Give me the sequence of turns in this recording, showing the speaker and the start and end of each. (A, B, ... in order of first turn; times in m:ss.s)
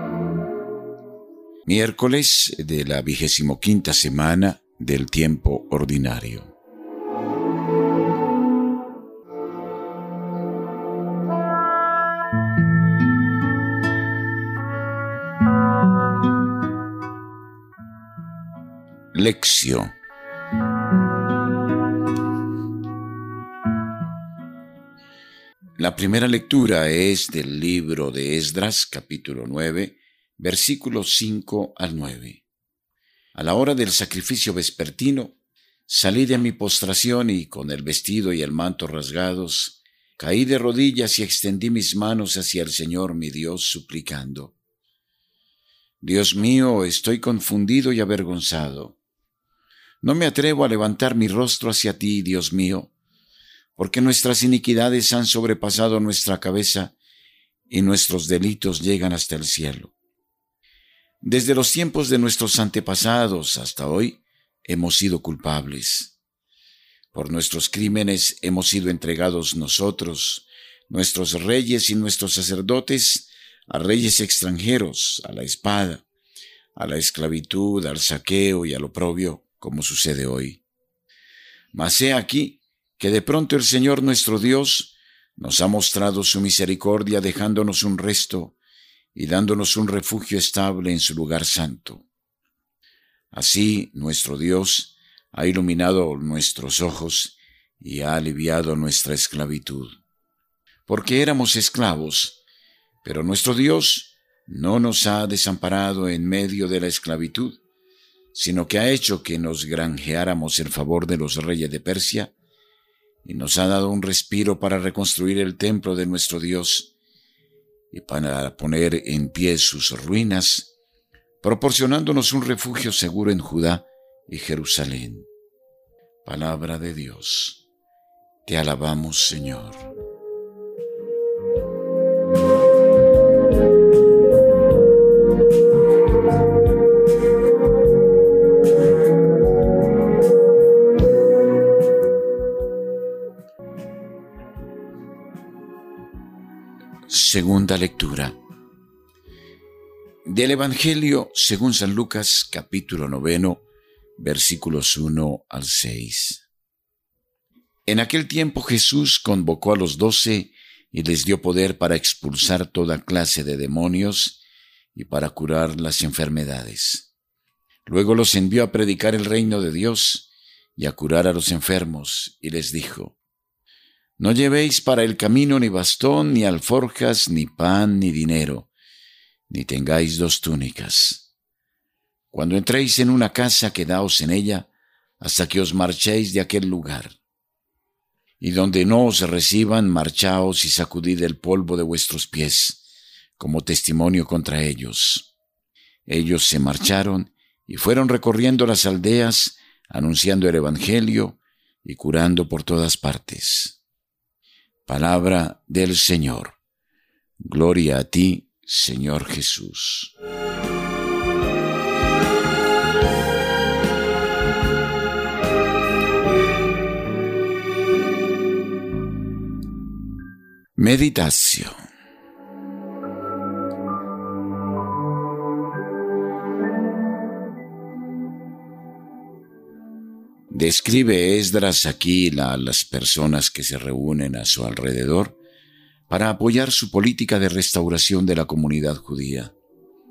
0:01.6-0:06.5 A
0:19.1-0:19.9 A
0:25.8-0:32.4 A
0:33.3-0:35.4 A
0:35.9-0:44.6 A
0:46.0-0:49.0 A
0:50.0-0:52.9 A
0:53.8-0:56.9 A
0:57.7-0:59.9 A
1:01.2-1:06.2 A
1:07.1-1:16.0 A
1:16.7-1:20.6 A
1:21.7-1:28.6 A
1:29.1-1:32.0 A
1:33.3-1:40.0 A
1:40.9-1:42.4 A
1:43.0-1:47.6 A
1:48.3-1:52.3 A
1:53.2-1:56.9 A
1:57.9-2:00.7 A
2:01.4-2:05.3 A
2:06.2-2:07.6 A
2:08.4-2:09.9 A
2:27.1-2:28.4 A
2:30.2-2:33.6 A
2:34.2-2:36.4 A
2:37.8-2:44.4 A
2:44.9-2:47.1 A
2:47.8-2:53.2 A
2:54.2-2:58.7 A
2:59.5-3:01.3 A
3:02.3-3:07.2 A
3:08.4-3:12.8 A
3:13.4-3:15.3 A
3:16.0-3:23.8 A
3:24.8-3:26.6 A
3:27.4-3:30.1 A
3:40.8-3:41.8 A
3:50.5-3:55.4 A
3:56.1-3:59.5 A